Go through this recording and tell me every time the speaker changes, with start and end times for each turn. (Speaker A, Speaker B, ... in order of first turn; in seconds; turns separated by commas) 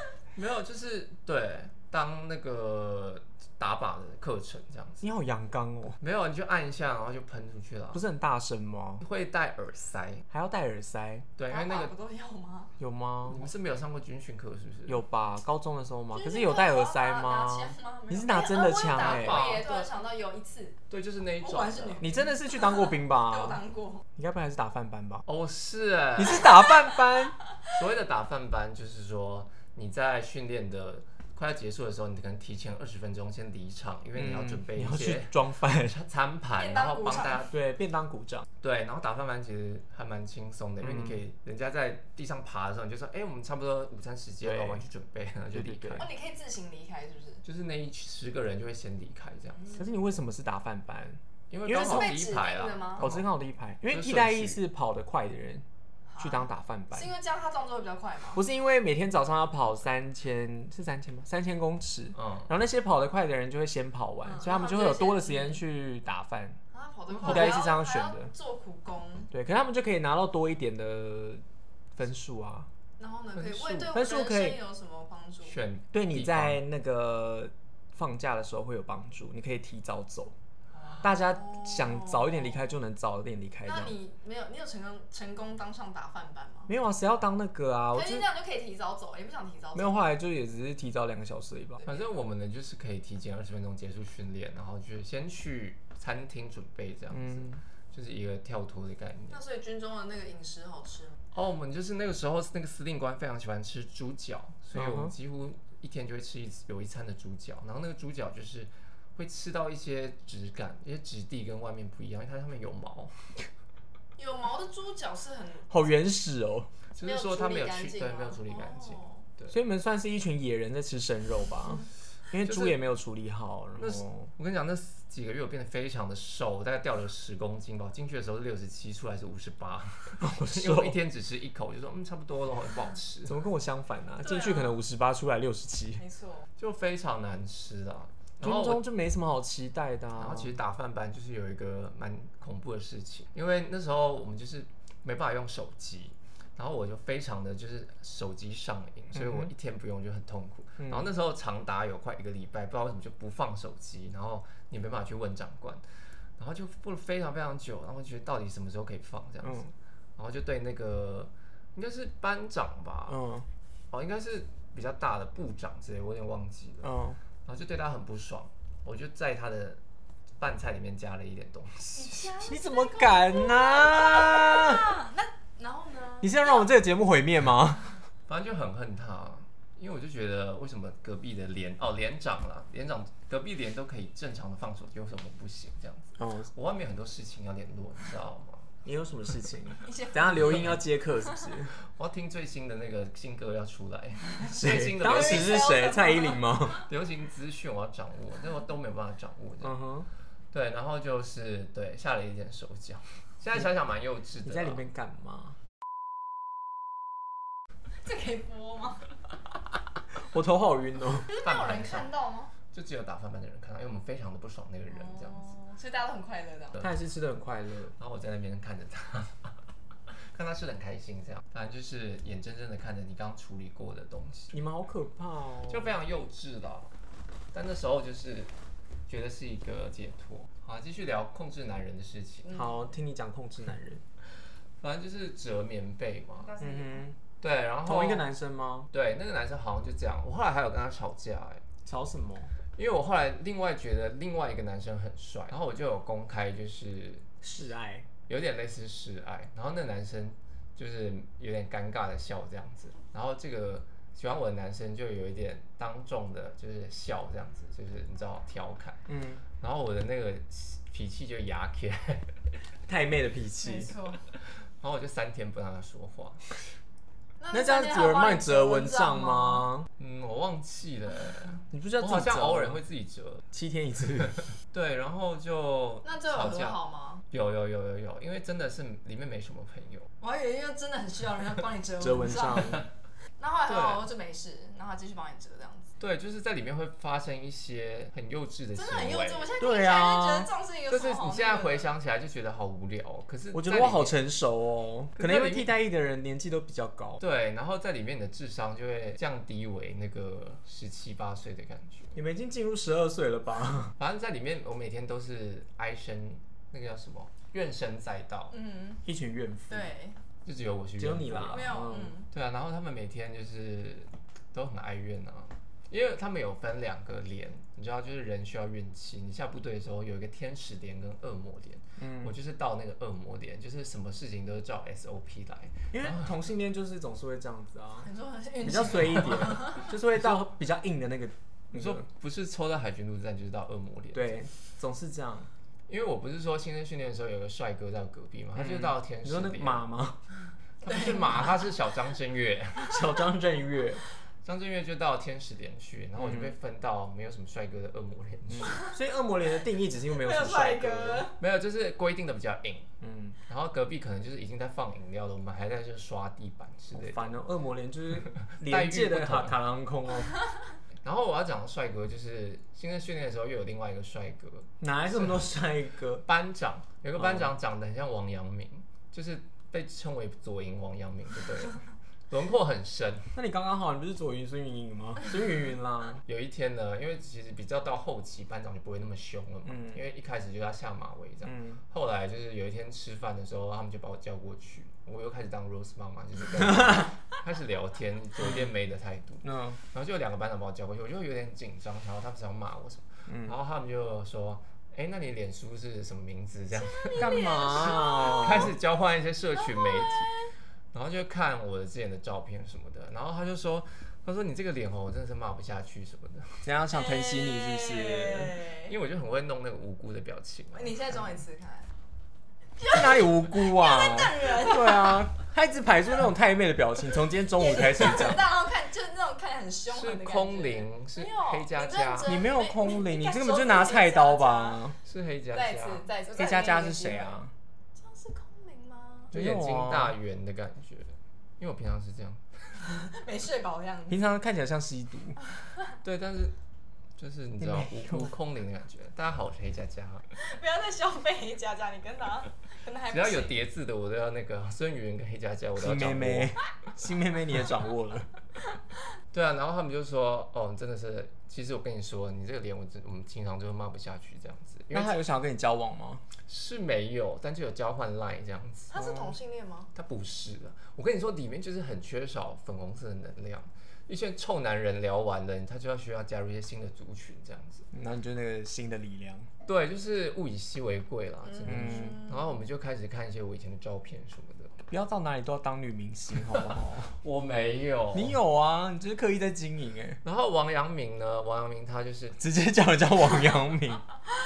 Speaker A: 0.3-5.0, Speaker B: 5.0-6.0, Speaker A: 6.0-8.0, Speaker B: 7.9-9.1, Speaker A: 9.0-10.2, Speaker B: 10.3-11.3, Speaker A: 11.4-11.9, Speaker C: 11.5-12.7, Speaker B: 12.8-13.5, Speaker A: 13.3-15.0, Speaker B: 14.9-19.6, Speaker C: 16.1-20.8, Speaker A: 19.0-19.9, Speaker A: 20.9-22.1, Speaker C: 21.4-24.1, Speaker B: 22.0-23.6, Speaker B: 24.1-25.2, Speaker A: 25.2-26.6, Speaker B: 26.1-27.4, Speaker A: 27.6-37.5, Speaker B: 34.1-36.0, Speaker C: 36.6-37.5, Speaker B: 37.5-38.5, Speaker A: 38.6-46.1, Speaker B: 40.8-41.2, Speaker B: 44.4-44.8, Speaker B: 45.5-46.1, Speaker C: 46.0-47.4, Speaker A: 47.4-49.7, Speaker B: 49.7-52.1, Speaker A: 51.5-53.3, Speaker C: 51.7-53.1, Speaker B: 53.0-55.6, Speaker A: 53.9-54.6, Speaker C: 56.1-58.4, Speaker B: 56.2-57.1, Speaker B: 58.3-66.6, Speaker A: 62.1-62.5, Speaker C: 64.3-65.6, Speaker C: 66.7-69.3, Speaker A: 67.1-67.6, Speaker B: 67.2-68.3, Speaker B: 69.3-71.4, Speaker B: 71.9-72.7, Speaker C: 73.0-75.6, Speaker A: 73.3-74.0, Speaker B: 73.9-74.6, Speaker A: 75.4-76.6, Speaker B: 75.9-80.3, Speaker C: 80.8-82.6, Speaker B: 81.0-83.9, Speaker C: 83.6-86.7, Speaker B: 86.7-88.2, Speaker C: 87.9-90.0, Speaker B: 89.7-91.8, Speaker A: 91.8-99.4, Speaker B: 97.1-97.6, Speaker C: 99.3-101.2, Speaker A: 101.3-113.4, Speaker B: 104.7-105.1, Speaker C: 114.2-115.9, Speaker B: 115.7-116.7, Speaker A: 116.9-119.6, Speaker C: 117.0-119.2, Speaker B: 119.5-124.3, Speaker A: 122.4-122.8, Speaker A: 123.8-133.4, Speaker B: 130.2-131.0, Speaker B: 133.2-136.0, Speaker C: 134.2-134.8, Speaker C: 136.0-136.5, Speaker A: 136.6-138.8, Speaker B: 138.4-140.6, Speaker A: 140.1-155.8, Speaker B: 149.1-149.5, Speaker B: 150.8-151.1, Speaker A: 156.4-163.2, Speaker B: 159.4-159.7, Speaker B: 163.1-163.5, Speaker A: 163.9-166.9, Speaker B: 166.8-167.2, Speaker A: 167.4-169.8, Speaker A: 170.4-172.3, Speaker C: 171.9-176.7, Speaker B: 172.4-174.9, Speaker B: 176.2-177.9, Speaker A: 178.3-188.7, Speaker B: 186.2-186.5, Speaker B: 188.8-191.8, Speaker C: 189.8-191.4, Speaker A: 190.4-190.8, Speaker A: 191.8-195.8, Speaker B: 194.4-196.9, Speaker C: 195.0-196.8, Speaker A: 196.9-199.8, Speaker B: 199.6-200.1, Speaker A: 200.5-204.8, Speaker B: 204.4-205.6, Speaker C: 208.0-209.1, Speaker B: 210.1-211.3, Speaker C: 211.3-212.5, Speaker A: 211.4-212.1, Speaker A: 212.7-215.4, Speaker C: 214.9-216.9, Speaker B: 216.8-217.9, Speaker A: 218.0-219.5, Speaker A: 220.3-224.6, Speaker B: 224.5-225.9, Speaker A: 225.7-226.9, Speaker A: 227.5-228.5, Speaker A: 229.1-232.6, Speaker B: 232.5-234.0, Speaker A: 234.8-236.6, Speaker C: 236.4-237.1, Speaker B: 236.6-237.2, Speaker A: 237.4-238.3, Speaker B: 237.8-238.9, Speaker A: 238.9-241.6, Speaker B: 241.8-242.6, Speaker A: 242.8-247.3, Speaker B: 247.4-248.1, Speaker A: 248.3-259.1, Speaker B: 259.1-259.4, Speaker A: 259.6-262.3, Speaker B: 262.9-263.9, Speaker C: 263.6-264.2, Speaker A: 264.4-266.4, Speaker C: 267.4-269.7, Speaker B: 267.5-269.9, Speaker A: 270.0-273.4, Speaker B: 271.7-272.8, Speaker B: 273.5-274.5, Speaker A: 274.3-276.8, Speaker C: 276.0-277.2, Speaker A: 277.3-280.1, Speaker C: 280.2-282.8, Speaker B: 282.0-282.8, Speaker C: 283.4-285.9, Speaker A: 283.7-284.1, Speaker A: 286.0-289.5, Speaker C: 288.7-291.9, Speaker B: 289.6-290.5, Speaker A: 290.9-294.2, Speaker B: 293.5-297.2, Speaker A: 295.1-295.8, Speaker A: 297.2-302.2, Speaker B: 302.1-303.9, Speaker A: 304.0-308.5, Speaker C: 308.5-309.1, Speaker B: 309.1-309.9, Speaker C: 309.7-310.2, Speaker A: 310.4-311.7, Speaker B: 311.0-312.1, Speaker C: 311.4-312.3, Speaker A: 312.3-326.3, Speaker B: 322.0-322.4, Speaker B: 325.9-328.1, Speaker C: 328.0-329.9, Speaker B: 328.6-332.1, Speaker A: 329.0-329.4, Speaker A: 330.1-330.4, Speaker A: 331.7-334.5, Speaker B: 334.1-335.5, Speaker A: 335.9-339.9, Speaker B: 338.6-340.2, Speaker A: 340.8-343.2, Speaker C: 340.9-341.4, Speaker B: 342.8-344.0, Speaker A: 344.4-348.9, Speaker B: 346.2-346.6, Speaker B: 348.5-351.3, Speaker C: 348.6-349.0, Speaker C: 350.1-351.4, Speaker A: 351.4-352.9, Speaker B: 353.0-353.4, Speaker A: 353.5-357.4, Speaker B: 356.9-360.4, Speaker A: 358.4-359.6, Speaker A: 361.0-365.6, Speaker B: 364.8-366.2, Speaker A: 366.2-373.4, Speaker B: 367.1-367.5, Speaker B: 373.4-376.2, Speaker A: 376.2-400.4, Speaker B: 379.6-380.0, Speaker B: 381.4-381.8, Speaker B: 386.6-387.1, Speaker B: 388.4-388.7, Speaker B: 389.4-389.8, Speaker B: 393.3-393.6, Speaker C: 396.8-398.7, Speaker B: 397.1-398.7, Speaker C: 399.6-400.5, Speaker A: 400.9-406.7, Speaker B: 406.6-408.6, Speaker C: 406.9-408.9, Speaker A: 408.9-410.9, Speaker C: 410.7-411.9, Speaker C: 412.8-415.3, Speaker B: 412.9-418.4, Speaker C: 417.6-424.8, Speaker A: 419.9-422.4, Speaker B: 422.2-425.0, Speaker A: 425.0-426.1, Speaker C: 425.5-427.4, Speaker B: 426.3-427.5, Speaker C: 427.9-429.3, Speaker B: 429.3-430.2, Speaker A: 429.3-432.4, Speaker C: 432.9-434.2, Speaker B: 434.1-435.4, Speaker A: 436.0-436.6, Speaker A: 437.2-440.3, Speaker B: 437.6-438.3, Speaker C: 440.3-443.6, Speaker A: 443.1-446.5, Speaker B: 445.8-448.3, Speaker A: 449.3-455.2, Speaker B: 454.9-456.2, Speaker A: 456.5-458.9, Speaker C: 458.9-459.9, Speaker B: 459.0-459.3, Speaker A: 459.9-467.9, Speaker B: 467.9-469.5, Speaker A: 469.6-474.8, Speaker B: 471.6-472.2, Speaker C: 471.7-472.3, Speaker B: 474.9-477.2, Speaker A: 476.4-478.4, Speaker B: 478.1-480.2, Speaker A: 480.2-482.4, Speaker B: 482.4-484.0